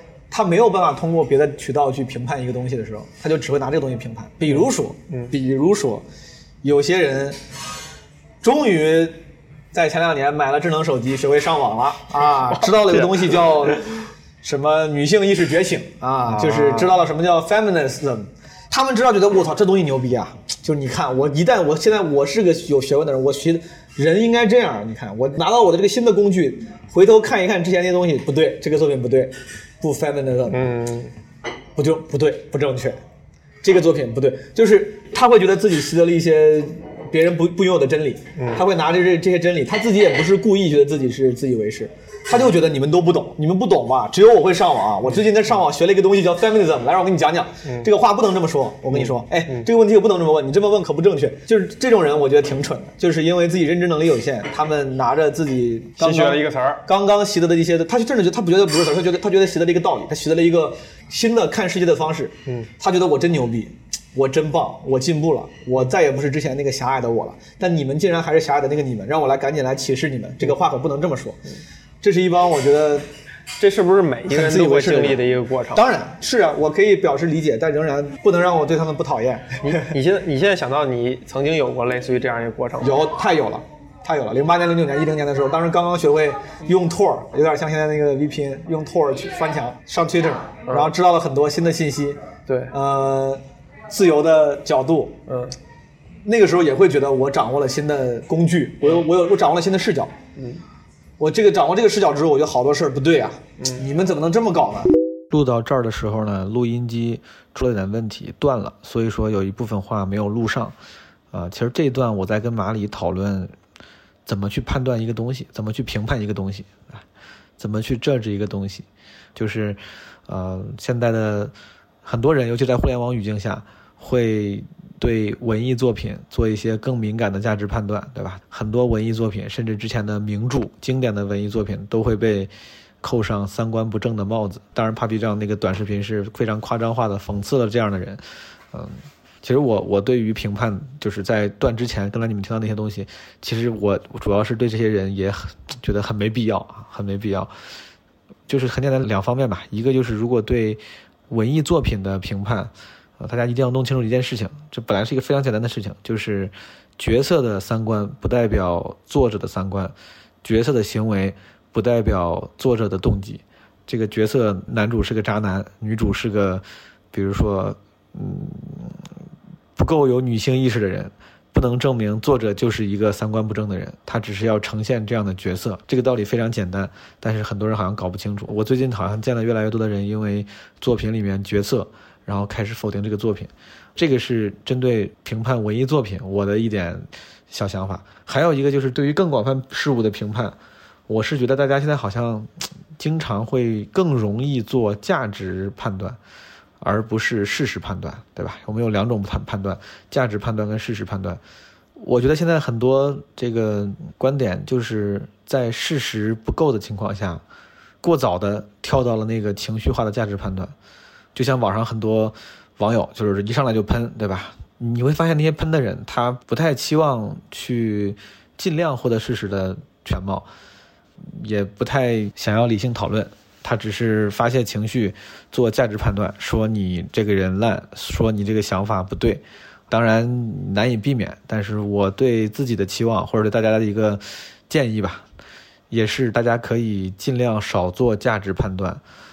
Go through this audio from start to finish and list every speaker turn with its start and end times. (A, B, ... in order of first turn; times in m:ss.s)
0:00.3-0:06.0 A
0:04.5-0:05.3 B
0:06.6-0:07.4 A
0:08.4-0:09.2 A
0:09.7-0:13.9 A
0:12.2-0:13.4 B
0:14.4-0:30.6 A
0:16.3-0:17.0 B
0:30.5-0:31.1 B
0:31.8-0:33.0 A
0:33.6-1:11.4 A
0:38.4-0:38.6 B
0:48.9-0:49.7 B
0:56.0-0:56.8 B
1:12.0-1:13.1 A
1:13.6-1:15.8 B
1:14.3-1:15.2 A
1:15.8-1:19.9 A
1:19.6-1:23.0 B
1:22.8-1:32.2 A
1:30.7-1:30.9 B
1:32.5-1:32.7 B
1:32.7-1:35.2 A
1:35.3-1:35.6 B
1:36.2-1:40.1 A
1:40.4-1:40.6 B
1:41.2-1:44.9 A
1:43.6-1:43.8 B
1:45.3-1:50.8 C
1:51.3-1:53.5 C
1:54.3-1:57.0 C
1:57.6-2:18.2 C
2:18.7-2:27.5 C
2:28.5-2:49.0 C
2:49.8-3:10.6 C
3:11.1-3:16.2 C
3:16.8-3:21.4 C
3:22.0-3:27.4 C
3:28.0-3:30.7 C
3:31.4-3:40.5 C
3:41.2-3:55.2 C
3:55.9-3:59.0 C